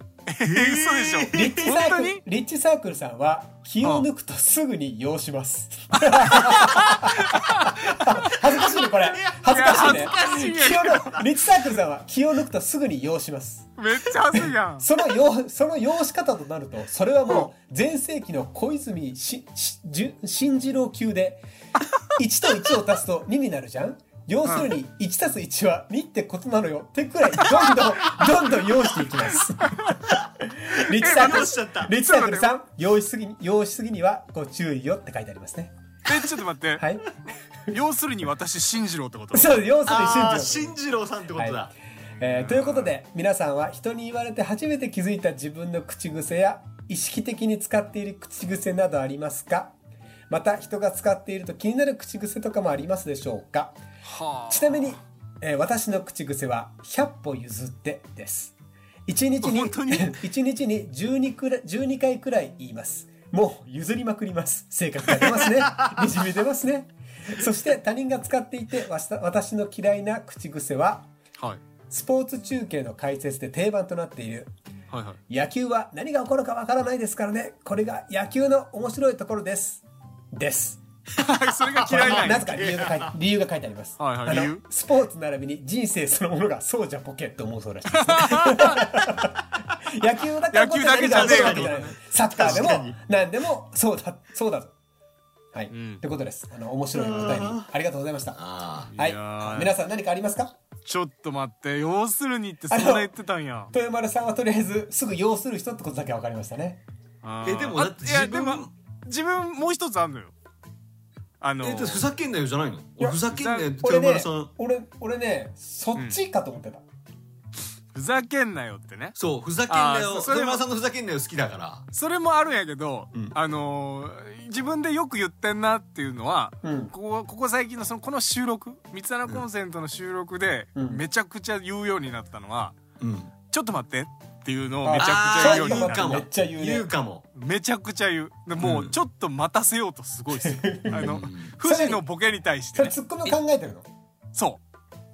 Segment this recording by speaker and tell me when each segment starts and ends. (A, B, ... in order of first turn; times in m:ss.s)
0:00.3-0:02.2 A
0:00.4-0:01.7 B
0:01.3-0:13.7 C
0:03.8-0:04.1 A
0:06.0-0:08.4 A
0:08.4-0:11.2 B
0:09.5-0:11.2 A
0:13.8-0:14.9 A
0:14.3-0:21.4 C
0:22.1-0:35.7 C
0:24.4-0:24.7 A
0:27.4-0:27.8 A
0:29.6-0:30.0 A
0:30.8-0:32.6 A
0:30.8-0:31.9 B
0:36.0-0:36.8 A
0:36.8-0:37.1 C
0:37.7-0:39.6 A
0:39.3-0:40.8 C
0:39.8-0:41.7 B
0:41.4-0:41.7 C
0:42.2-0:49.8 C
0:42.2-0:42.9 A
0:50.3-0:53.8 C
0:54.0-0:55.0 A
0:54.5-0:58.6 C
0:59.1-1:11.1 C
0:59.4-1:00.2 A
1:11.9-1:14.5 C
1:14.9-1:15.2 A
1:15.3-1:20.8 C
1:21.2-1:22.8 A
1:21.8-1:23.1 B
1:21.8-1:34.7 C
1:24.0-1:24.6 A
1:27.9-1:29.1 A
1:30.5-1:32.7 A
1:31.0-1:33.0 B
1:35.5-1:38.4 C
1:35.7-1:36.0 A
1:36.9-1:37.7 B
1:38.4-1:38.9 B
1:38.9-1:39.7 A
1:39.0-1:40.6 C
1:40.8-1:43.7 A
1:42.7-1:43.1 C
1:43.7-1:46.8 C
1:47.2-1:50.3 A
1:47.4-1:48.7 B
1:51.4-1:52.0 A
1:51.6-1:54.5 B
1:53.3-1:53.7 A
1:53.7-1:56.8 C
1:57.9-1:59.2 A
1:59.2-2:01.9 B
1:59.7-2:00.6 A
2:01.9-2:12.8 A
2:06.6-2:06.9 C
2:10.8-2:11.0 C
2:13.0-2:13.3 B
2:13.5-2:16.2 A
2:14.8-2:16.9 C
2:14.9-2:17.2 B
2:17.3-2:23.0 A
2:18.6-2:18.9 B
2:20.3-2:22.0 C
2:20.9-2:21.5 B
2:22.7-2:23.9 C
2:24.3-2:24.6 A